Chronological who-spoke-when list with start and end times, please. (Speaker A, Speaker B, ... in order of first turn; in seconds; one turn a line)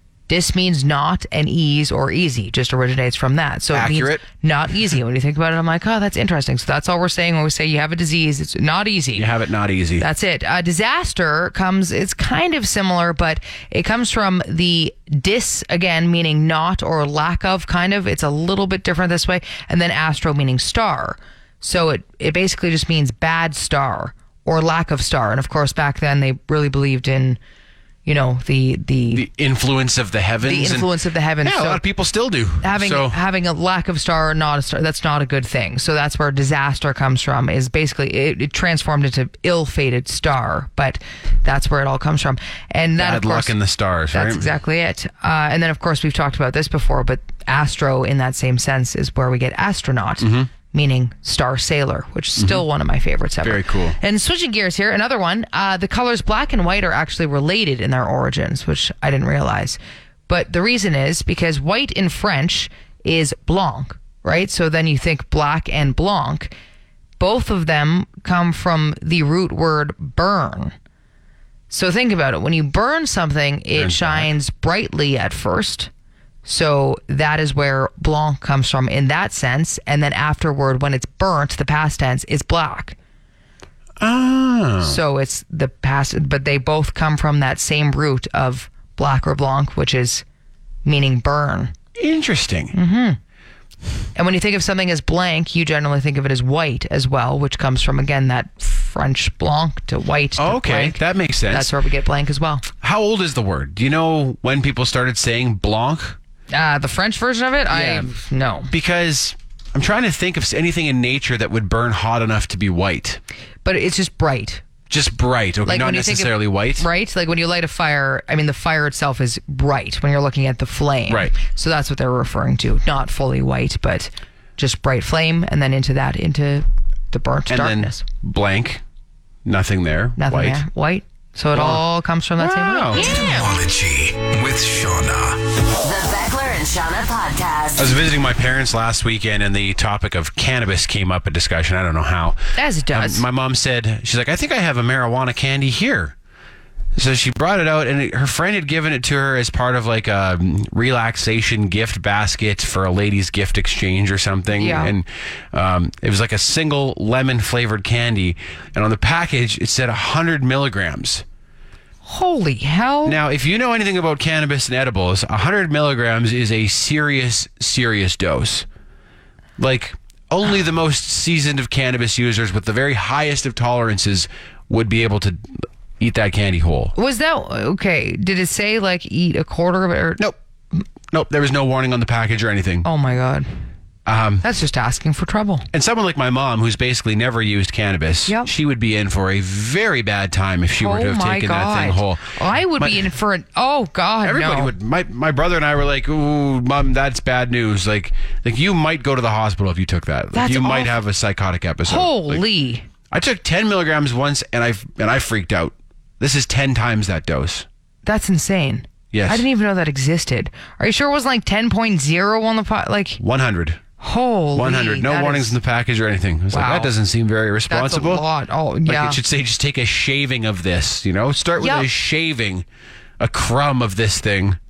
Speaker A: 0.3-9.3
Speaker B: 3.7-4.2
Speaker B: 9.2-10.1
Speaker A: 10.0-27.4
Speaker A: 28.1-29.3
Speaker B: 29.1-30.9
Speaker A: 30.4-31.8
Speaker B: 31.4-33.2
Speaker A: 32.6-43.5
Speaker B: 43.0-44.5
Speaker A: 44.1-66.5
Speaker B: 50.2-50.5
Speaker B: 52.4-52.6
Speaker B: 53.4-54.0
Speaker A: 67.2-70.7
Speaker A: 71.7-75.9
Speaker B: 73.8-74.3
Speaker A: 76.5-83.0
Speaker B: 84.0-85.0
Speaker A: 84.8-90.2
Speaker A: 90.8-91.7
Speaker B: 92.0-92.8
Speaker A: 92.7-93.2
Speaker A: 94.2-101.0
Speaker B: 100.4-101.7
Speaker A: 101.5-102.7
Speaker B: 102.8-106.2
Speaker A: 106.5-108.7
Speaker B: 107.7-108.1
Speaker B: 108.7-113.2
Speaker A: 113.7-114.6
Speaker B: 114.9-116.9
Speaker A: 115.7-128.0
Speaker B: 127.5-128.8
Speaker B: 129.4-130.6
Speaker A: 130.2-133.5
Speaker B: 131.5-131.8
Speaker B: 132.4-133.1
Speaker C: 133.0-135.4
Speaker D: 135.8-138.0
Speaker B: 137.8-142.4
Speaker A: 142.6-143.2
Speaker B: 142.9-146.2
Speaker B: 147.0-161.2
Speaker A: 154.6-154.9
Speaker A: 162.1-163.2
Speaker B: 163.1-168.7
Speaker B: 169.6-175.4
Speaker B: 176.0-176.9
Speaker A: 176.9-180.2
Speaker B: 181.1-182.9
Speaker A: 182.8-183.5
Speaker B: 184.1-184.4
Speaker A: 184.4-185.7
Speaker B: 185.7-193.1
Speaker A: 190.8-194.7
Speaker B: 194.2-202.4
Speaker A: 200.3-200.9
Speaker A: 201.9-202.9
Speaker B: 203.1-207.7
Speaker A: 208.1-213.2
Speaker B: 209.1-209.5
Speaker B: 213.2-213.8
Speaker A: 214.0-215.6
Speaker B: 214.6-218.2
Speaker A: 216.5-216.9
Speaker A: 217.7-219.2
Speaker B: 218.9-222.7
Speaker A: 221.6-221.9
Speaker B: 223.2-224.6